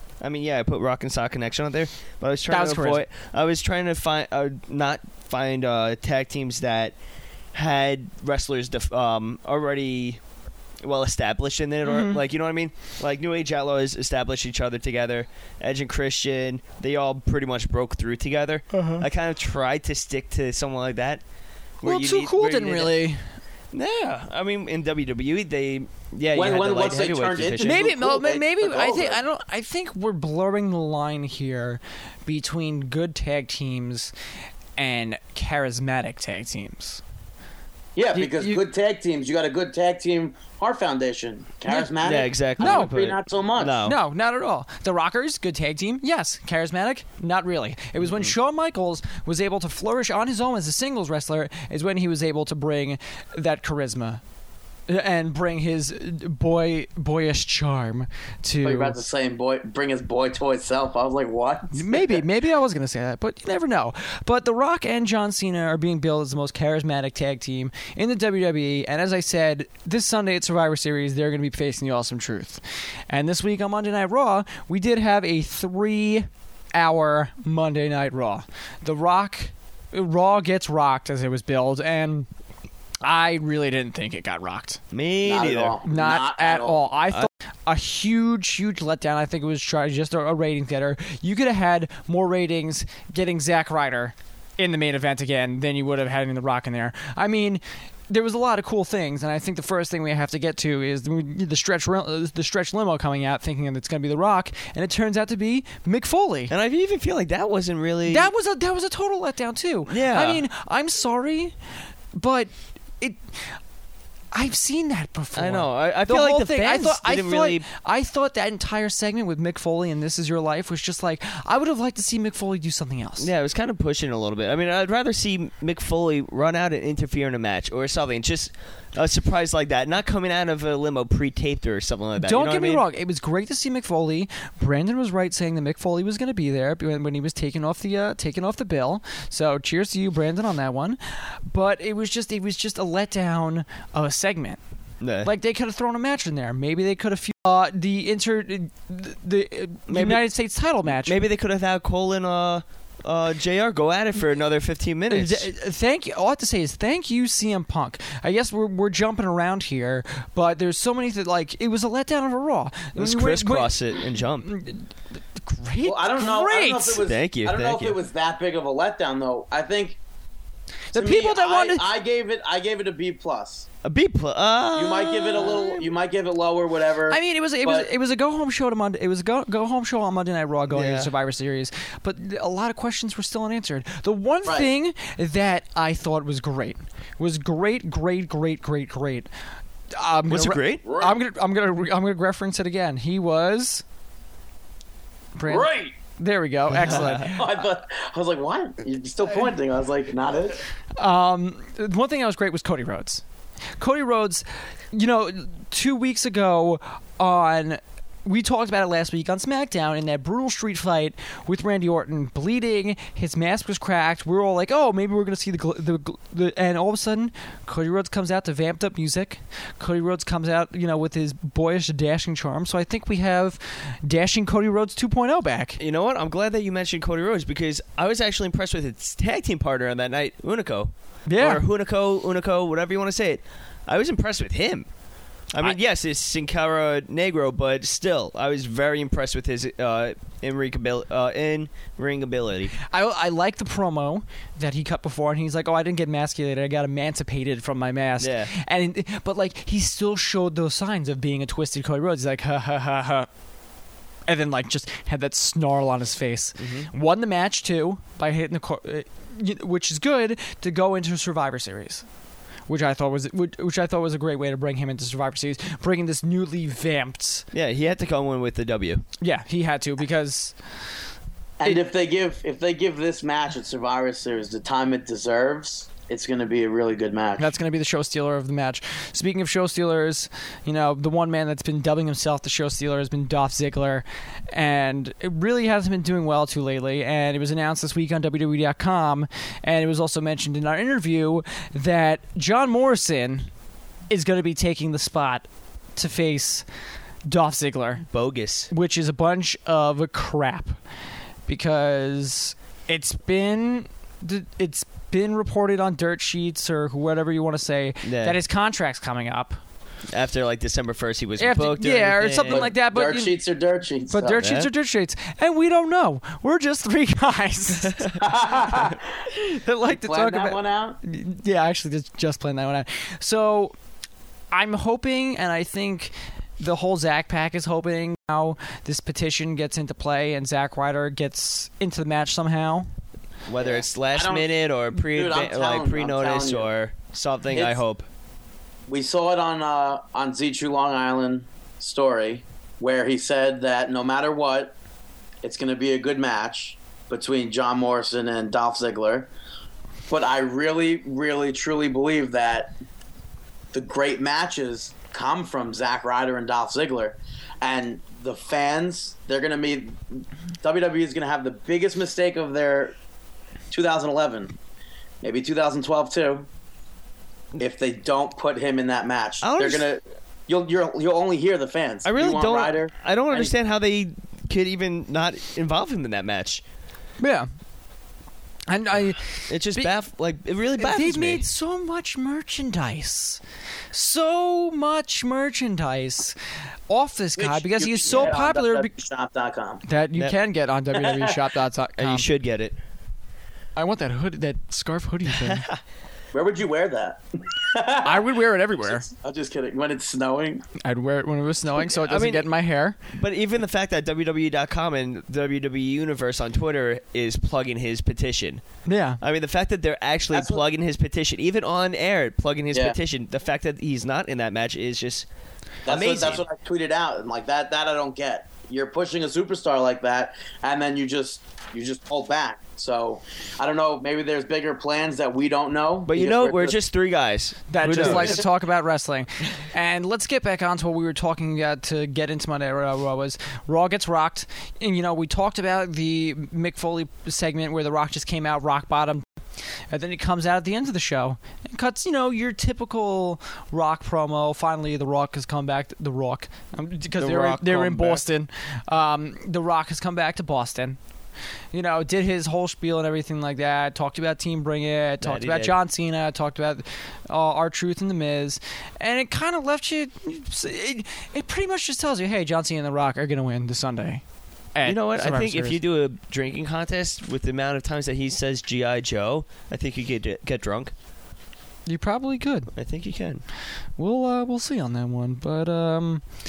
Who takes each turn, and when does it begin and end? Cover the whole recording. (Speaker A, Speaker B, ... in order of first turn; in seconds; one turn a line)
Speaker A: 0.2-7.0
Speaker B: 2.5-3.0
Speaker A: 7.5-10.2
Speaker A: 10.8-21.2
Speaker B: 11.8-12.2
Speaker B: 18.7-19.1
Speaker A: 21.8-22.9
Speaker B: 21.8-23.2
Speaker A: 23.7-27.9
Speaker C: 26.3-29.2
Speaker B: 27.6-34.1
Speaker B: 34.8-37.0
Speaker C: 38.0-43.8
Speaker B: 38.1-38.6
Speaker A: 42.0-44.0
Speaker B: 42.6-42.9
Speaker B: 43.8-54.2
Speaker A: 48.1-48.3
Speaker B: 54.9-59.0
Speaker C: 58.6-62.2
Speaker B: 61.7-82.3
Speaker B: 83.0-84.8
Speaker A: 84.9-85.8
Speaker C: 85.2-86.9
Speaker B: 85.8-106.5
Speaker A: 106.5-108.3
Speaker B: 108.1-111.6
Speaker A: 109.9-110.4
Speaker B: 112.2-113.6
Speaker B: 114.3-123.3
Speaker A: 115.3-117.7
Speaker A: 123.2-132.8
Speaker B: 132.2-144.6
Speaker A: 145.0-145.3
Speaker B: 145.2-151.2
Speaker A: 149.9-150.3
Speaker A: 150.9-155.5
Speaker B: 155.1-167.1
Speaker A: 163.0-164.5
Speaker C: 165.8-170.0
Speaker A: 167.0-168.0
Speaker B: 170.9-171.9
Speaker C: 170.9-173.7
Speaker A: 173.8-175.9
Speaker C: 174.7-177.9
Speaker B: 177.1-189.3
Speaker A: 180.7-181.1
Speaker B: 189.9-193.8
Speaker A: 190.3-190.8
Speaker C: 190.8-191.2
Speaker B: 195.4-197.5
Speaker C: 195.5-195.9
Speaker A: 196.7-197.2
Speaker C: 196.9-200.6
Speaker B: 201.0-203.2
Speaker B: 203.8-225.8
Speaker A: 225.8-234.9
Speaker B: 231.3-231.6
Speaker A: 235.5-242.8
Speaker B: 242.8-253.3
Speaker A: 248.2-248.5
Speaker B: 254.3-262.1
Speaker A: 256.6-256.9
Speaker B: 262.7-267.5
Speaker A: 267.5-269.0
Speaker B: 269.2-270.6
Speaker C: 271.6-277.5
Speaker B: 277.4-293.5
Speaker B: 294.1-296.6
Speaker B: 297.3-298.1
Speaker A: 298.1-298.7
Speaker B: 298.7-300.8
Speaker B: 301.5-309.6
Speaker A: 308.0-308.4
Speaker A: 310.1-312.7
Speaker B: 311.4-313.4
Speaker C: 312.5-314.4
Speaker B: 314.1-318.1
Speaker A: 314.4-314.7
Speaker C: 318.2-319.0
Speaker B: 319.3-323.7
Speaker C: 319.9-321.0
Speaker B: 324.5-332.9
Speaker A: 333.5-338.1
Speaker C: 333.6-336.7
Speaker C: 337.5-337.8
Speaker C: 338.9-344.8
Speaker C: 345.4-349.3
Speaker C: 350.1-352.7
Speaker C: 353.7-362.9
Speaker C: 363.7-364.5
Speaker C: 365.2-366.5
Speaker C: 367.6-373.5
Speaker A: 369.4-369.9
Speaker A: 372.1-376.6
Speaker B: 377.2-377.5
Speaker B: 378.7-379.9
Speaker A: 379.5-381.4
Speaker B: 380.8-383.4
Speaker B: 383.9-386.4
Speaker B: 386.9-388.9
Speaker C: 387.4-389.8
Speaker B: 389.9-392.3
Speaker C: 391.0-391.3
Speaker A: 392.0-392.8
Speaker B: 393.8-395.7
Speaker A: 395.4-395.8
Speaker C: 396.3-400.6
Speaker B: 398.0-399.1
Speaker B: 400.8-403.0
Speaker A: 401.8-402.5
Speaker A: 403.1-408.6
Speaker B: 408.9-409.2
Speaker A: 409.2-415.3
Speaker C: 410.3-410.6
Speaker C: 412.7-413.0
Speaker A: 415.9-416.4
Speaker C: 415.9-426.8
Speaker A: 426.1-428.4
Speaker B: 427.7-439.3
Speaker C: 427.9-428.4
Speaker B: 439.9-451.0
Speaker A: 447.2-448.2
Speaker B: 451.7-464.2
Speaker A: 455.2-455.7
Speaker B: 464.8-465.8
Speaker A: 464.9-470.9
Speaker B: 471.9-472.7
Speaker A: 472.7-473.4
Speaker B: 474.0-476.2